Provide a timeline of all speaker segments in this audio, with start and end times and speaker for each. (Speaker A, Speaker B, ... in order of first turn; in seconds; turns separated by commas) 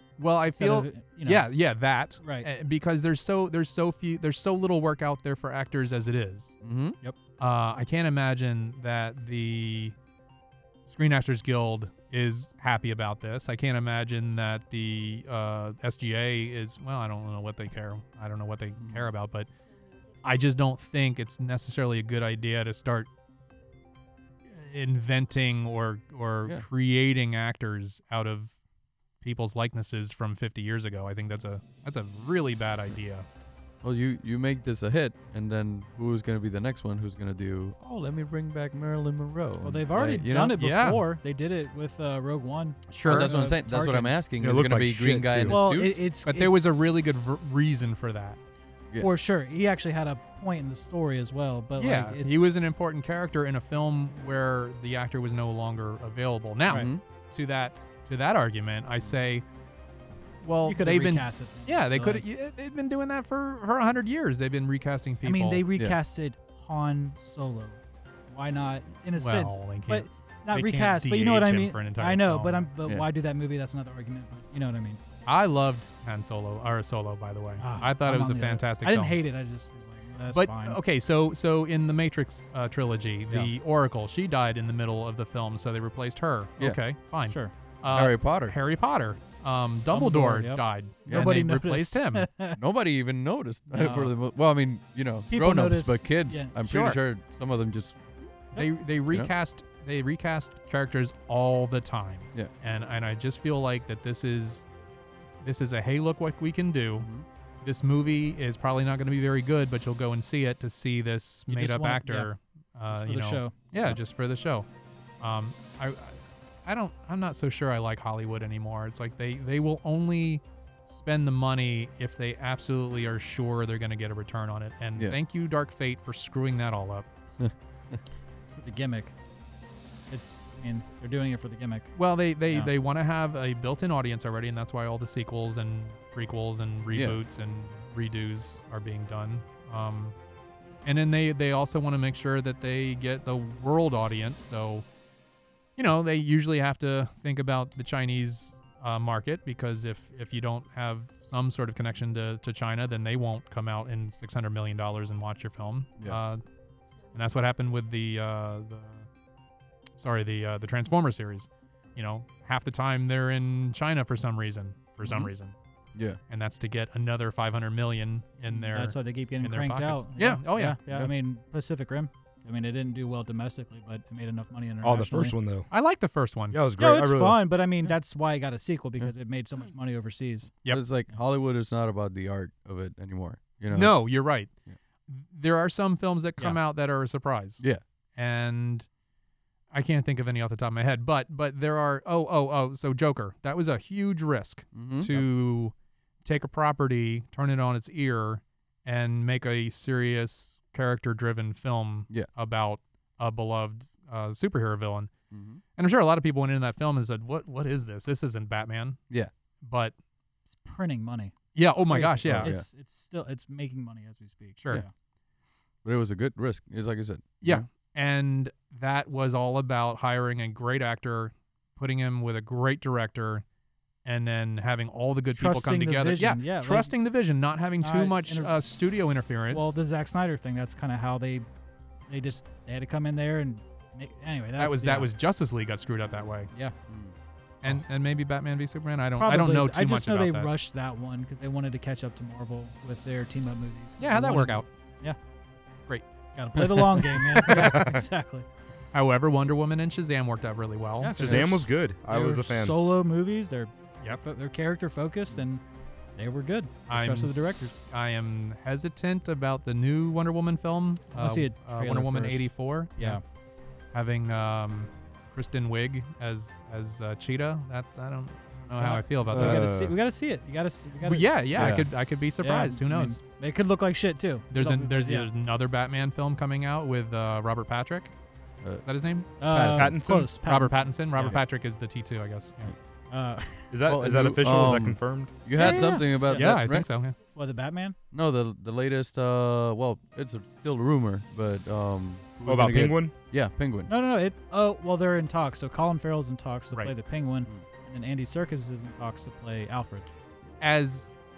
Speaker A: 0.2-6.5, Speaker B: 0.6-1.4, Speaker B: 2.2-2.5, Speaker C: 6.6-7.0, Speaker A: 7.4-9.9, Speaker A: 10.9-19.5, Speaker C: 18.8-19.1, Speaker A: 20.2-23.1, Speaker A: 24.5-28.5, Speaker A: 29.2-33.2, Speaker C: 33.8-40.6, Speaker B: 39.6-44.2, Speaker A: 40.6-41.0, Speaker A: 42.9-43.3, Speaker C: 43.0-46.0, Speaker D: 44.4-45.6, Speaker B: 45.5-46.6, Speaker A: 46.2-48.4, Speaker B: 49.0-52.5, Speaker A: 51.8-59.4, Speaker C: 56.7-57.0, Speaker A: 60.4-65.7, Speaker B: 60.6-62.2, Speaker B: 65.2-75.0, Speaker A: 69.2-72.7, Speaker A: 75.2-79.2, Speaker B: 77.6-80.8, Speaker A: 80.3-92.3, Speaker B: 87.2-87.5, Speaker C: 87.9-88.6, Speaker B: 89.9-92.6, Speaker C: 91.0-91.3, Speaker C: 92.5-98.0, Speaker B: 93.7-94.1, Speaker B: 95.3-96.5, Speaker A: 96.6-97.0, Speaker A: 98.5-104.7, Speaker A: 105.4-107.1, Speaker C: 107.0-107.2, Speaker A: 107.6-114.7, Speaker B: 111.5-112.3, Speaker B: 112.9-113.5, Speaker A: 115.2-127.1, Speaker C: 127.4-128.0, Speaker B: 128.5-129.1, Speaker B: 130.1-131.9, Speaker A: 131.9-140.2, Speaker C: 136.9-137.2, Speaker A: 140.8-144.8, Speaker A: 145.8-156.4, Speaker A: 157.1-159.1, Speaker A: 160.0-165.5, Speaker C: 165.0-165.3, Speaker C: 165.9-166.2, Speaker A: 166.3-170.8, Speaker B: 168.5-175.3, Speaker D: 174.8-175.7, Speaker A: 175.7-176.6, Speaker D: 176.5-177.4, Speaker B: 176.8-180.5, Speaker C: 180.7-184.0, Speaker A: 183.7-184.5, Speaker A: 185.1-187.6, Speaker A: 188.2-188.9, Speaker A: 189.7-195.7, Speaker C: 194.7-195.2, Speaker A: 196.2-205.1, Speaker C: 205.3-205.6, Speaker A: 205.8-209.0, Speaker A: 209.6-209.9, Speaker B: 210.5-211.3, Speaker A: 211.5-212.5, Speaker B: 211.9-214.9, Speaker C: 212.2-212.7, Speaker C: 215.8-217.7, Speaker A: 217.4-223.4, Speaker A: 224.0-229.7, Speaker B: 225.3-226.9, Speaker B: 227.8-228.5, Speaker B: 229.5-231.5, Speaker B: 232.1-235.1, Speaker A: 234.6-236.5, Speaker C: 236.9-237.1, Speaker A: 237.6-240.5, Speaker B: 239.2-245.2, Speaker A: 244.0-244.7, Speaker B: 246.3-248.5, Speaker A: 246.6-247.8, Speaker D: 247.5-248.0, Speaker A: 248.9-251.4, Speaker B: 251.0-255.6, Speaker D: 251.1-252.7, Speaker B: 256.1-257.8, Speaker A: 256.9-263.2, Speaker B: 261.1-263.2, Speaker A: 263.9-269.7, Speaker B: 268.8-271.8, Speaker C: 269.3-269.9, Speaker D: 269.4-269.8, Speaker A: 271.0-273.2, Speaker C: 271.5-271.9, Speaker B: 272.4-275.3, Speaker A: 274.5-278.1, Speaker A: 278.8-282.7, Speaker B: 279.4-281.4, Speaker C: 279.5-279.9, Speaker D: 279.8-280.3, Speaker B: 283.1-283.8, Speaker D: 283.7-285.3, Speaker C: 283.9-286.9, Speaker B: 285.6-286.5, Speaker A: 285.6-287.2, Speaker B: 287.3-287.9, Speaker C: 288.1-293.9, Speaker D: 292.4-293.1, Speaker B: 293.9-300.1, Speaker A: 300.6-301.2